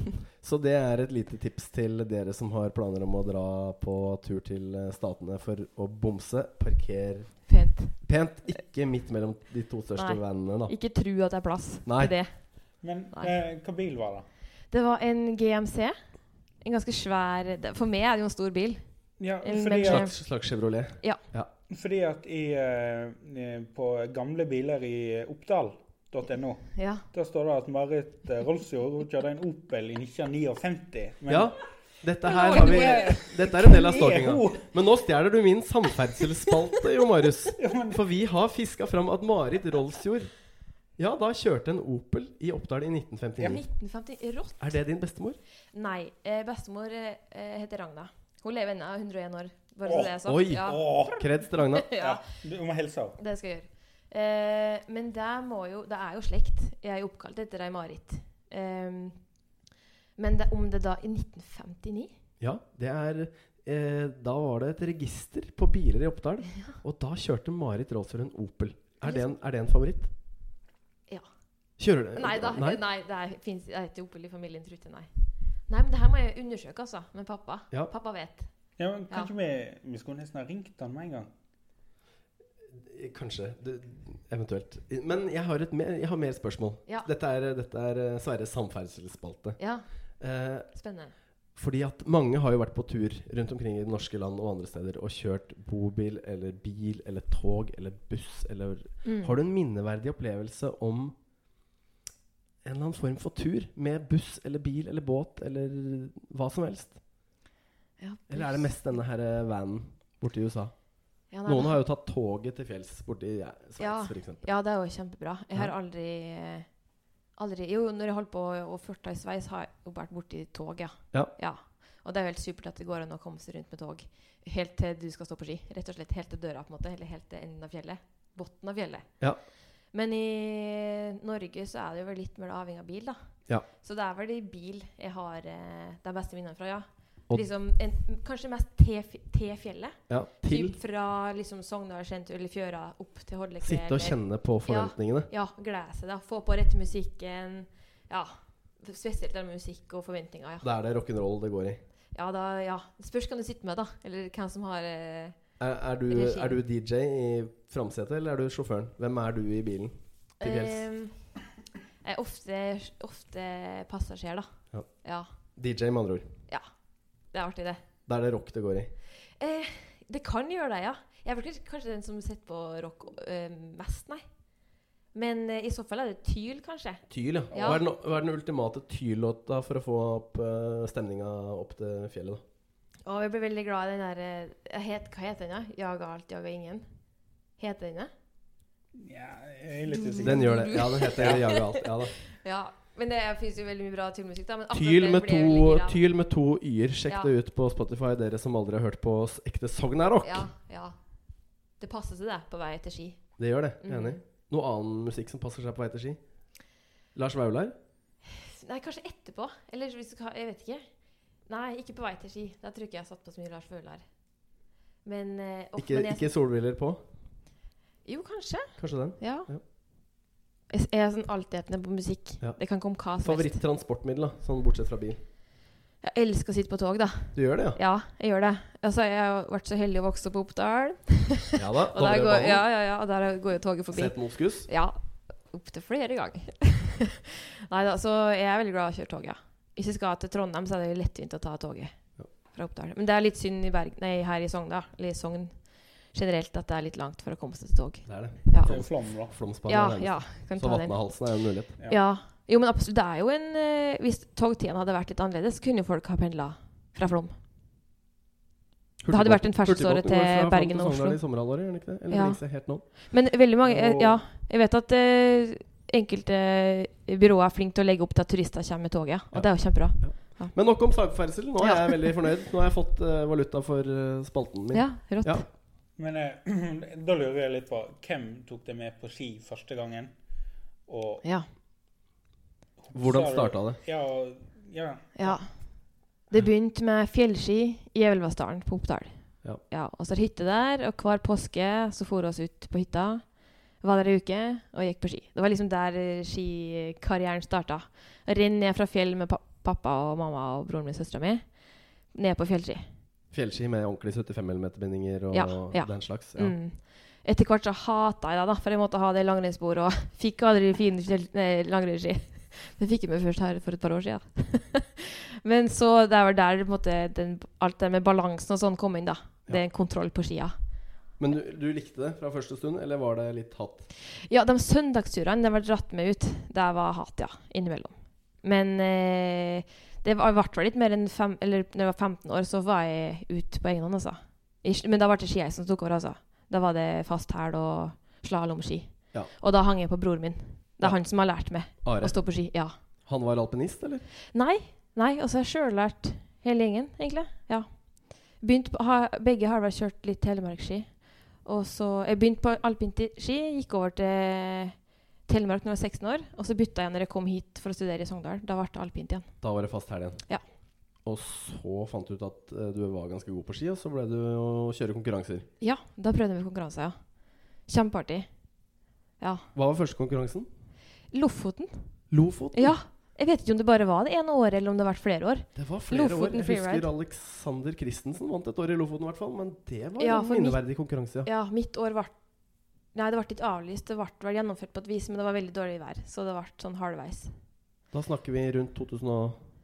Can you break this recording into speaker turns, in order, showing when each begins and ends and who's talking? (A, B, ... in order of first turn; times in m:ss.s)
0:00.4-0:10.7 A
0:07.5-0:08.0 B
0:10.0-0:12.3 B
0:11.8-0:12.1 A
0:12.8-0:14.2 C
0:14.7-0:16.0 B
0:16.6-0:18.8 B
0:19.2-0:20.1 C
0:19.4-0:20.1 B
0:19.8-0:21.5 A
0:21.7-0:31.6 C
0:26.7-0:27.0 B
0:31.3-0:40.3 A
0:32.2-0:33.2 B
0:32.4-0:34.6 C
0:37.6-0:38.0 C
0:41.0-0:43.6 A
0:43.4-0:44.6 B
0:44.6-0:45.4 A
0:45.7-0:50.8 B
0:49.8-0:51.3 C
0:50.2-0:51.9 A
0:51.7-0:52.2 B
0:52.0-0:53.2 C
0:53.2-0:59.2 B
1:00.2-1:02.1 B
1:02.4-1:10.1 A
1:11.8-1:12.8 A
1:12.2-1:15.1 B
1:15.7-1:18.5 B
1:18.8-1:21.3 C
1:22.7-1:29.6 A
1:29.6-1:29.8 B
1:30.2-1:30.7 A
1:30.7-1:31.1 B
1:31.6-1:41.1 A
1:39.0-1:39.4 B
1:42.6-1:47.0 A
1:48.0-1:48.8 B
1:48.3-1:50.7 A
1:51.3-1:51.8 B
1:51.4-1:54.4 A
1:53.8-1:56.7 B
1:57.4-2:09.1 B
2:09.9-2:13.2 B
2:13.8-2:30.7 B
2:20.1-2:20.8 A
2:23.6-2:25.3 A
2:30.6-2:31.8 A
2:32.1-2:35.4 B
2:35.6-2:40.8 A
2:36.1-2:36.6 B
2:40.4-2:41.1 B
2:42.0-2:44.5 B
2:45.6-2:46.3 A
2:47.3-2:47.8 B
2:48.1-2:48.9 A
2:49.4-2:54.2 B
2:55.1-2:57.8 B
2:57.1-3:02.4 A
3:03.0-3:06.8 B
3:07.6-3:08.1 B
3:09.0-3:10.6 C
3:09.9-3:16.0 B
3:10.2-3:12.2 A
3:11.1-3:11.4 C
3:14.7-3:20.5 A
3:20.2-3:21.0 B
3:21.8-3:23.2 B
3:23.4-3:26.2 A
3:23.8-3:24.2 B
3:27.1-3:27.7 A
3:28.3-3:30.8 B
3:31.5-3:34.0 B
3:35.0-3:36.3 B
3:35.8-3:37.0 A
3:38.0-3:39.5 B
3:38.8-3:39.6 A
3:40.7-3:43.6 B
3:43.2-3:45.2 A
3:46.0-3:55.0 B
3:47.3-3:47.8 A
3:51.6-3:52.6 A
3:53.9-3:54.7 A
3:55.5-4:01.9 B
4:02.5-4:05.6 B
4:06.1-4:08.8 B
4:08.0-4:11.7 A
4:08.5-4:09.3 C
4:09.7-4:11.0 B
4:11.8-4:17.3 B
4:19.0-4:22.8 A
4:19.1-4:21.2 B
4:22.1-4:22.4 B
4:22.9-4:30.5 B
4:23.7-4:24.0 A
4:29.3-4:35.4 A
4:31.6-4:32.2 B
4:34.7-4:35.4 B
4:36.0-4:40.1 C
4:40.9-4:41.2 C
4:42.8-4:45.4 C
4:42.9-4:43.8 A
4:45.2-4:45.5 B
4:46.3-4:53.2 B
4:53.8-5:01.4 B
5:02.1-5:02.8 B
5:03.3-5:06.6 A
5:05.3-5:20.6 B
5:21.2-5:23.9 A
5:24.1-5:42.7 B
5:41.8-5:42.1 A
5:43.0-5:44.0 A
5:44.3-5:47.7 B
5:48.4-5:50.9 B
5:51.4-5:54.8 B
5:55.3-5:59.3 B
5:59.4-6:00.2 A
6:01.0-6:05.5 A
6:05.6-6:07.0 B
6:07.7-6:08.3 B
6:09.5-6:10.5 A
6:11.1-6:11.7 B
6:12.1-6:12.8 A
6:12.5-6:16.9 B
6:15.6-6:21.3 A
6:20.0-6:20.6 B
6:21.2-6:22.1 B
6:22.9-6:27.3 B
6:27.9-6:29.4 A